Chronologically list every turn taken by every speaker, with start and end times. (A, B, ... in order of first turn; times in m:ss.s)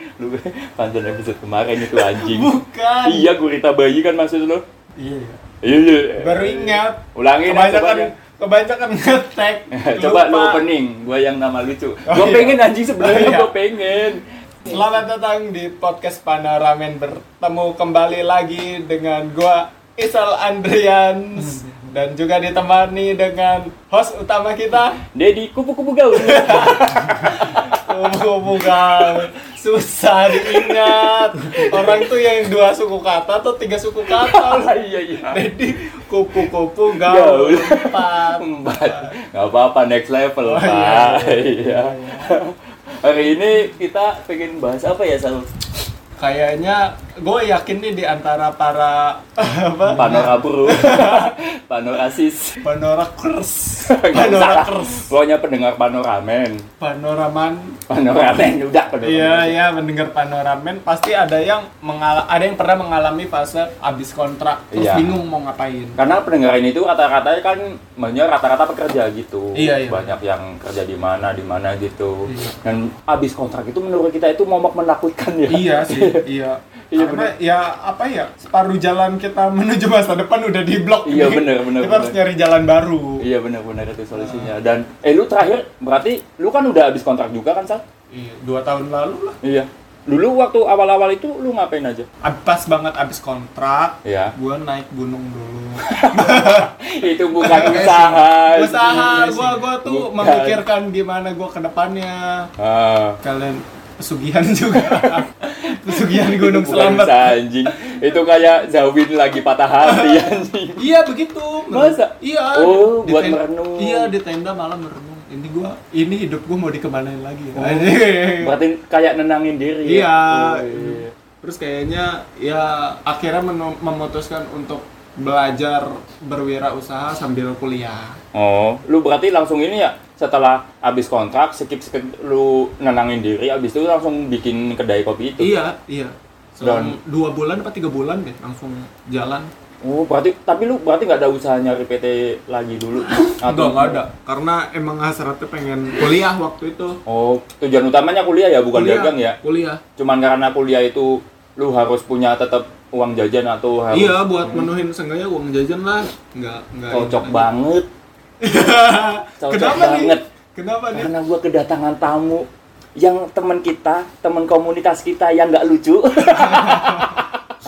0:00.2-0:04.6 A
0:01.9-0:03.3 B
0:05.0-0:05.4 B
0:05.6-0:08.1 A
0:06.2-0:10.6 B
0:09.7-0:14.2 A
0:12.0-0:13.5 B
0:14.6-0:25.0 B
0:25.1-0:27.8 A
0:26.2-0:39.1 B
0:29.0-0:29.2 A
0:30.4-0:32.0 A
0:34.1-0:35.4 A
0:37.0-0:45.5 A
0:40.4-0:42.4 B
0:46.2-0:51.3 B
0:49.9-0:52.6 A
0:52.6-0:55.1 B
0:53.8-0:56.6 A
0:56.8-0:57.8 B
0:57.9-0:59.6 A
0:59.0-1:06.0 B
1:04.7-1:05.1 A
1:06.0-1:16.2 A
1:09.5-1:10.1 B
1:12.3-1:12.5 B
1:15.5-1:23.2 B
1:16.9-1:17.3 A
1:21.0-1:22.2 A
1:23.2-1:27.8 A
1:24.1-1:24.5 B
1:28.1-1:29.4 B
1:29.4-1:32.1 A
1:32.2-1:36.7 B
1:34.0-1:34.3 A
1:35.8-1:40.6 A
1:37.4-1:42.5 B
1:42.6-1:43.2 A
1:43.2-1:47.4 B
1:44.9-1:50.9 A
1:50.0-1:58.5 B
1:51.7-1:54.1 A
1:57.6-2:01.1 A
1:59.8-2:08.2 B
2:08.3-2:15.6 A
2:15.4-2:19.5 B
2:16.6-2:17.0 A
2:19.8-2:24.0 A
2:23.2-2:27.0 B
2:27.0-2:29.4 A
2:28.7-2:29.8 B
2:30.0-2:34.7 A
2:33.9-2:37.4 B
2:36.9-2:37.9 A
2:38.4-2:41.1 B
2:39.4-2:40.2 A
2:40.9-2:47.3 A
2:46.5-2:47.1 B